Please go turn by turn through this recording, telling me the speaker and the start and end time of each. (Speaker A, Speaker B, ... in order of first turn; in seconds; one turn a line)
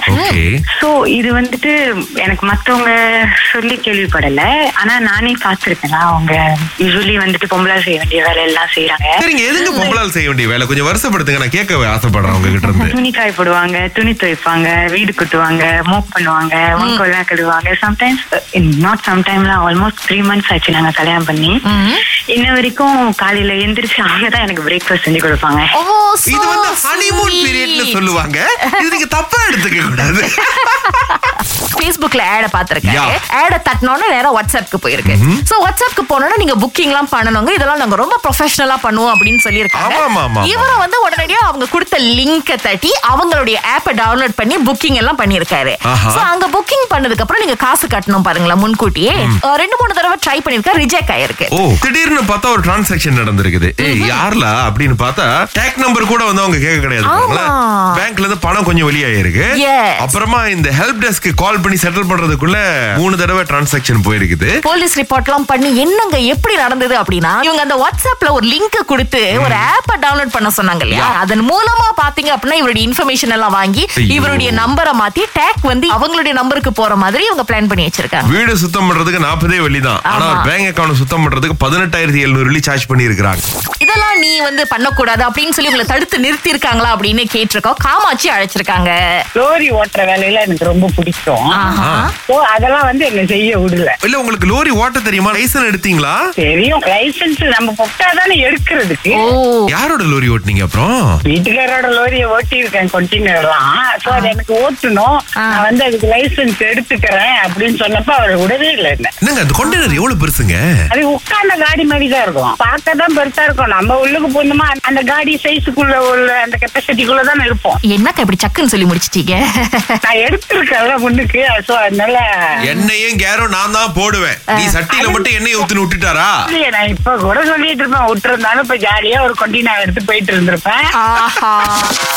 Speaker A: 0.1-0.5
Speaker B: 0.1-0.4
Speaker C: 0.8-1.7
Speaker C: 2.2-3.0
Speaker C: 3.5-9.2
Speaker A: 9.2-13.0
Speaker B: 9.6-10.0
Speaker C: 12.8-21.6
Speaker B: 21.7-22.0
Speaker C: 22.4-25.7
Speaker B: 25.8-28.0
Speaker A: 26.3-30.9
Speaker B: 30.4-51.5
Speaker A: 32.8-33.1
Speaker A: 35.0-35.4
Speaker A: 39.8-40.8
Speaker A: 45.9-46.3
Speaker A: 51.5-59.5
Speaker B: 53.8-54.2
Speaker B: 57.1-58.0
Speaker B: 59.6-60.1
Speaker A: 60.0-64.5
Speaker B: 64.7-78.3
Speaker A: 69.3-69.7
Speaker A: 74.0-74.7
Speaker A: 78.2-83.4
Speaker B: 80.1-80.5
Speaker B: 83.8-89.2
Speaker D: 89.4-91.6
Speaker B: 91.6-92.1
Speaker A: 91.7-92.1
Speaker D: 92.3-94.0
Speaker A: 94.0-96.2
Speaker D: 96.4-99.2
Speaker B: 99.2-99.7
Speaker A: 99.7-101.2
Speaker D: 101.3-109.1
Speaker B: 104.1-104.3
Speaker A: 109.2-110.6
Speaker B: 109.6-110.0
Speaker D: 110.9-117.8
Speaker B: 117.9-120.0
Speaker D: 120.0-122.2
Speaker A: 122.7-126.3
Speaker D: 124.9-125.6
Speaker D: 126.5-130.8
Speaker B: 130.9-131.9